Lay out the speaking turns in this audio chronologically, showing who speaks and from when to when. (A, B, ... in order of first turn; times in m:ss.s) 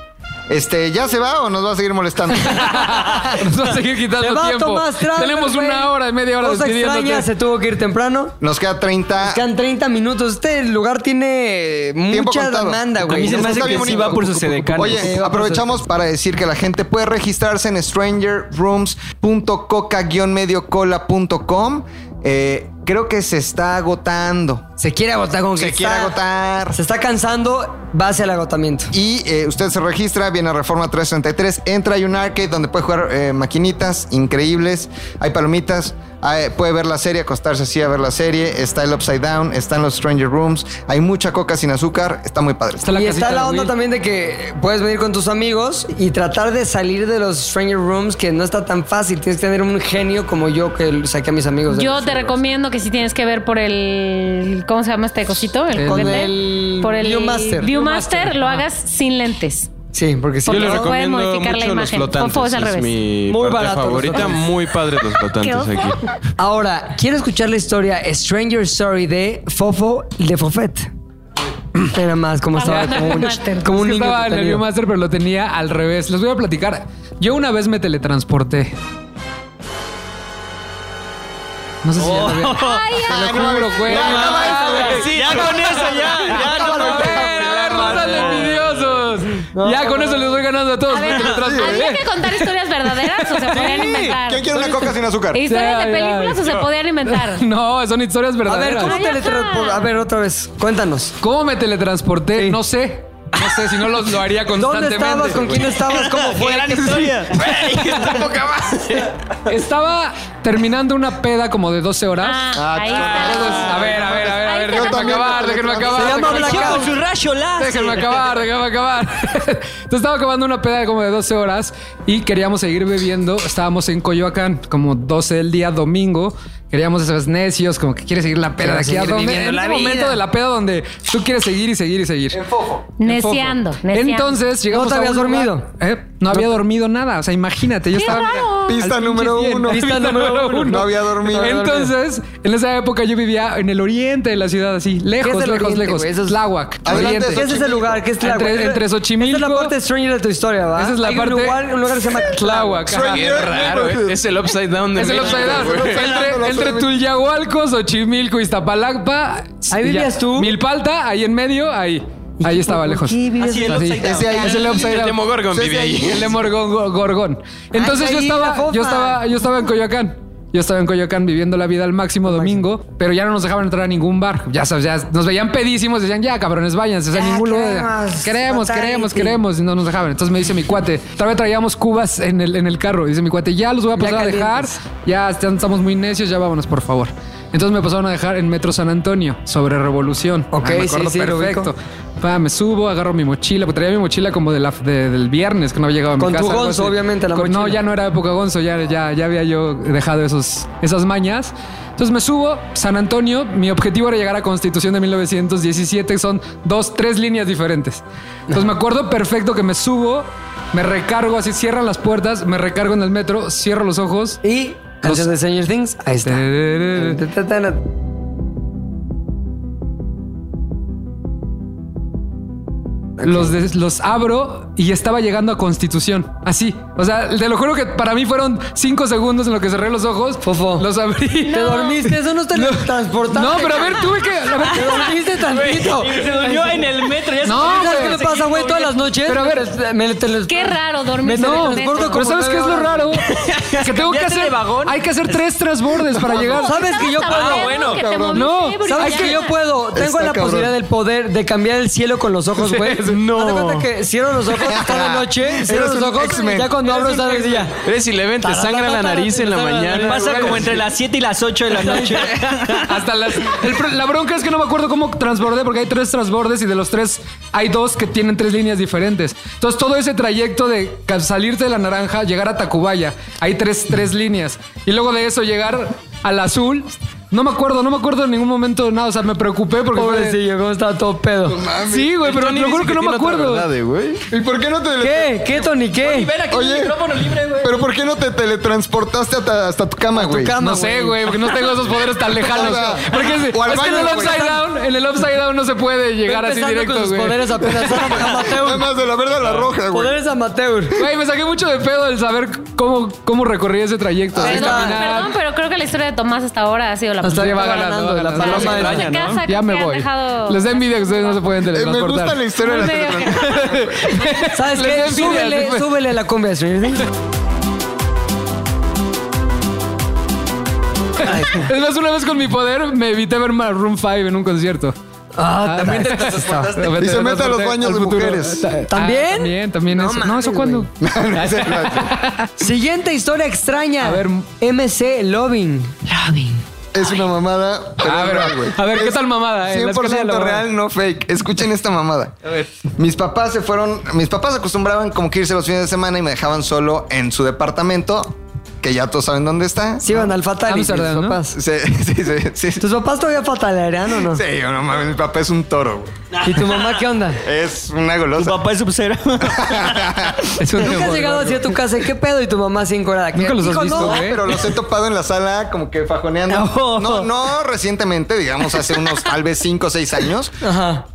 0:00.5-0:03.1 A
0:02.5-0:07.3 B
0:04.2-0:08.4 C
0:08.4-0:09.4 A
0:09.2-0:15.7 C
0:12.1-0:24.6 A
0:13.0-0:15.4 D
0:24.8-0:26.2 C
0:25.6-0:26.8 A
0:26.7-0:28.9 C
0:28.9-0:42.9 A
0:42.8-0:43.7 B
0:42.9-0:52.4 C
0:51.7-0:59.7 E
0:55.8-0:56.2 B
0:55.8-0:57.7 C
0:57.6-0:58.6 B
0:59.9-1:00.9 C
1:00.5-1:03.0 E
1:00.5-1:06.0 F
1:03.3-1:04.5 C
1:05.4-1:06.1 E
1:06.4-1:10.9 C
1:11.9-1:14.6 C
1:12.6-1:13.7 E
1:12.7-1:18.7 B
1:21.8-1:25.3 B
1:22.0-1:22.8 D
1:22.6-1:23.5 E
1:23.1-1:28.0 A
1:23.9-1:28.7 D
1:24.4-1:24.9 C
1:26.0-1:28.4 C
1:26.0-1:32.5 B
1:29.5-1:30.4 C
1:30.9-1:34.8 E
1:31.4-1:31.8 A
1:33.1-1:34.0 B
1:33.7-1:34.1 D
1:34.2-1:35.4 A
1:35.3-1:37.5 E
1:35.5-1:39.0 B
1:38.4-1:41.2 C
1:38.8-1:39.9 E
1:41.2-1:45.7 B
1:44.5-1:47.2 C
1:45.9-1:49.1 D
1:49.5-1:52.5 B
1:52.2-1:55.4 E
1:52.6-1:56.6 A
1:53.0-1:57.0 B
1:56.0-1:56.9 C
1:56.0-1:58.2 D
1:57.6-2:12.4 B
2:08.6-2:10.1 C
2:12.5-2:12.8 A
2:13.0-2:14.4 E
2:13.0-2:27.6 B
2:14.7-2:15.7 C
2:17.9-2:18.8 E
2:18.6-2:19.9 A
2:19.7-2:21.9 C
2:20.6-2:21.7 A
2:25.2-2:33.0 C
2:26.8-2:28.0 A
2:28.2-2:29.8 B
2:30.8-2:31.6 B
2:32.3-2:34.0 B
2:32.9-2:34.2 A
2:33.0-2:36.2 F
2:35.0-2:45.3 B
2:35.1-2:36.9 A
2:39.7-2:40.5 C
2:42.4-2:43.9 C
2:43.4-2:44.8 D
2:44.0-2:46.3 A
2:44.2-2:46.4 F
2:46.0-3:34.4 B
2:47.8-2:49.2 C
2:52.3-2:52.6 C
2:57.1-2:59.4 C
3:04.0-3:04.8 C
3:10.5-3:11.7 C
3:16.2-3:17.8 C
3:34.4-3:37.8 C
3:35.0-3:35.3 B
3:36.2-3:37.2 B
3:43.2-3:51.9 B
3:43.2-3:43.5 C
3:50.4-3:50.9 C
3:51.5-3:52.0 E
3:51.5-3:54.1 C
3:52.5-3:55.2 B
3:54.7-3:56.9 C
3:55.4-3:59.0 D
3:57.4-3:58.2 B
3:57.5-4:03.2 C
3:59.3-3:59.7 B
4:00.5-4:02.3 E
4:01.4-4:03.3 B
4:03.3-4:05.5 D
4:03.8-4:06.8 B
4:06.3-4:09.6 E
4:06.6-4:17.8 C
4:07.2-4:08.0 D
4:08.0-4:08.3 A
4:08.3-4:09.4 B
4:09.9-4:10.8 A
4:12.6-4:13.2 B
4:13.4-4:13.7 F
4:14.5-4:17.0 A
4:17.8-4:20.7 F
4:18.4-4:20.8 C
4:19.9-4:23.0 D
4:21.8-4:22.5 C
4:22.9-4:40.4 B
4:39.9-4:41.6 C
4:41.6-4:44.3 F
4:41.8-4:43.7 B
4:44.3-4:45.7 A
4:45.0-4:46.3 C
4:46.0-4:47.8 D
4:46.5-4:47.0 A
4:47.6-4:50.6 A
4:50.1-4:51.6 C
4:50.6-4:57.5 B
4:52.4-4:54.6 A
4:53.7-4:54.6 C
4:56.2-4:58.9 C
4:57.8-5:00.2 A
4:59.9-5:01.0 C
5:00.9-5:05.4 B
5:04.4-5:05.0 C
5:04.4-5:07.8 E
5:07.2-5:09.1 C
5:07.4-5:12.4 B
5:08.4-5:11.5 E
5:08.6-5:09.4 D
5:11.7-5:14.0 A
5:12.6-5:13.6 E
5:13.5-5:15.9 B
5:14.5-5:17.1 C
5:21.2-5:25.0 B
5:25.4-5:26.7 C
5:25.6-5:32.5 B
5:26.4-5:26.9 D
5:27.0-5:28.7 A
5:28.9-5:30.9 C
5:31.0-5:32.1 A
5:32.6-5:36.0 C
5:34.0-5:34.5 B
5:36.1-5:36.5 B
5:36.9-5:42.4 A
5:38.0-5:40.6 B
5:43.0-5:50.2 A
5:50.0-5:51.6 C
5:50.7-5:51.4 B
5:51.5-5:52.8 A
5:52.8-5:54.4 C
5:54.2-5:56.1 A
5:56.4-5:56.7 D
5:56.4-5:57.4 C
5:57.4-5:58.6 A
5:58.4-6:00.2 D
5:59.4-6:00.5 A
6:00.6-6:01.7 B
6:00.8-6:04.2 C
6:03.3-6:04.4 B
6:03.9-6:10.6 A
6:06.5-6:07.3 D
6:10.6-6:11.0 C